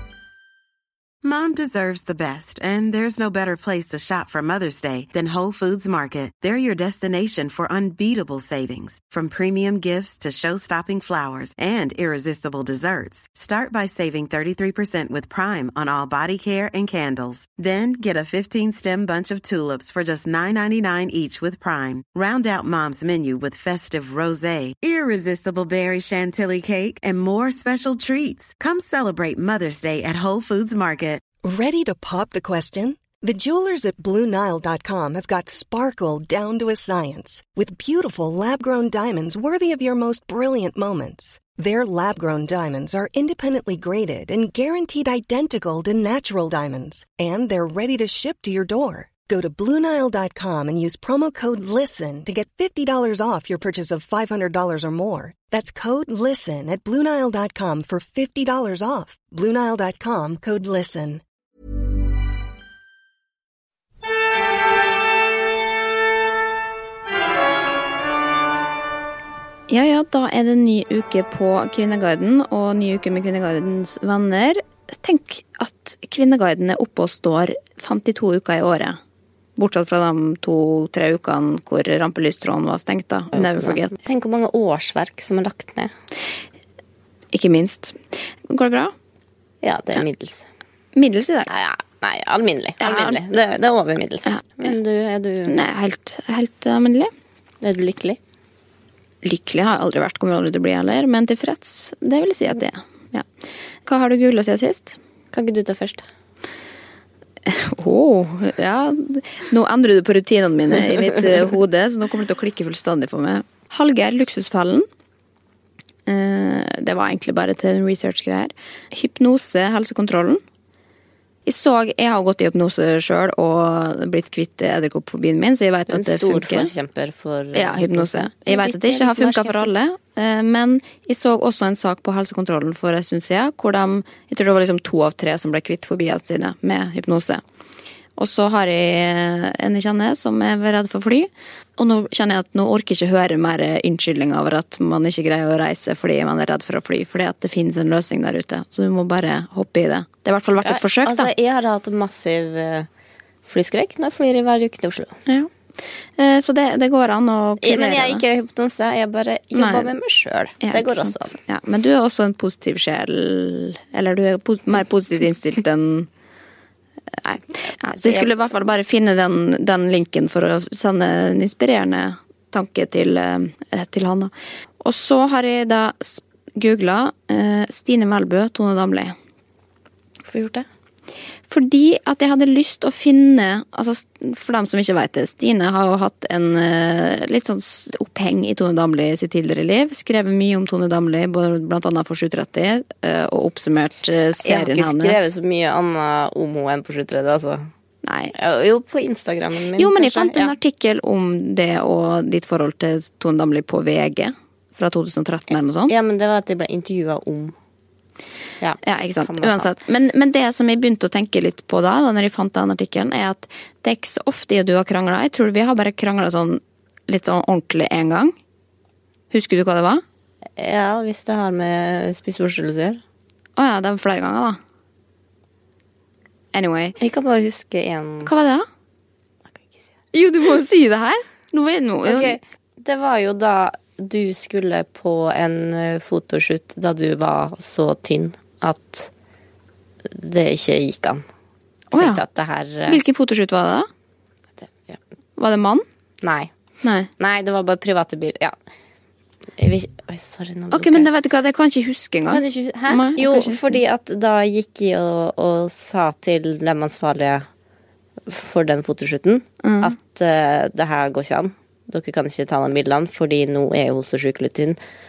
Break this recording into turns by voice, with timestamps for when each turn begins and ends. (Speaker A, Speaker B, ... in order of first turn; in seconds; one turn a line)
Speaker A: 1.2-31.2
Speaker B: 31.4-61.2
Speaker C: 69.7-79.0
Speaker C: 79.6-83.9
Speaker D: 83.3-85.9
Speaker C: 87.3-88.9
Speaker D: 89.6-90.5
Speaker C: 91.0-91.5
Speaker D: 91.5-95.6
Speaker C: 92.8-93.2
Speaker C: 94.3-94.7
Speaker C: 95.5-97.1
Speaker D: 97.6-98.2
Speaker C: 99.2-103.3
Speaker C: 103.9-105.0
Speaker D: 105.3-106.0
Speaker C: 107.5-114.9
Speaker C: 116.1-120.4
Speaker C: 121.5-126.7
Speaker D: 125.9-129.8
Speaker C: 127.5-137.4
Speaker C: 138.2-151.3
Speaker D: 150.6-152.9
Speaker D: 153.4-155.2
Speaker C: 155.3-155.5
Speaker C: 156.2-158.2
Speaker D: 157.6-161.3
Speaker C: 159.6-159.9
Speaker C: 160.6-166.1
Speaker C: 167.2-179.2
Speaker D: 167.9-168.3
Speaker D: 180.3-180.7
Speaker C: 181.5-195.3
Speaker D: 194.4-197.7
Speaker C: 198.0-198.3
Speaker D: 198.3-200.6
Speaker C: 199.8-205.9
Speaker D: 205.9-207.6
Speaker D: 208.6-209.7
Speaker C: 208.8-218.3
Speaker C: 219.3-220.0
Speaker D: 220.6-223.0
Speaker C: 223.6-224.6
Speaker C: 226.5-227.0
Speaker D: 227.0-228.3
Speaker C: 228.3-228.7
Speaker C: 230.1-232.4
Speaker D: 232.1-239.1
Speaker D: 240.1-241.2
Speaker C: 241.9-242.2
Speaker D: 241.9-243.0
Speaker C: 242.9-243.9
Speaker D: 244.6-245.0
Speaker C: 245.4-245.8
Speaker D: 246.2-246.5
Speaker C: 246.8-247.1
Speaker D: 247.2-248.6
Speaker D: 249.6-251.1
Speaker C: 250.7-253.8
Speaker D: 252.3-257.5
Speaker D: 258.3-264.8
Speaker C: 259.6-259.9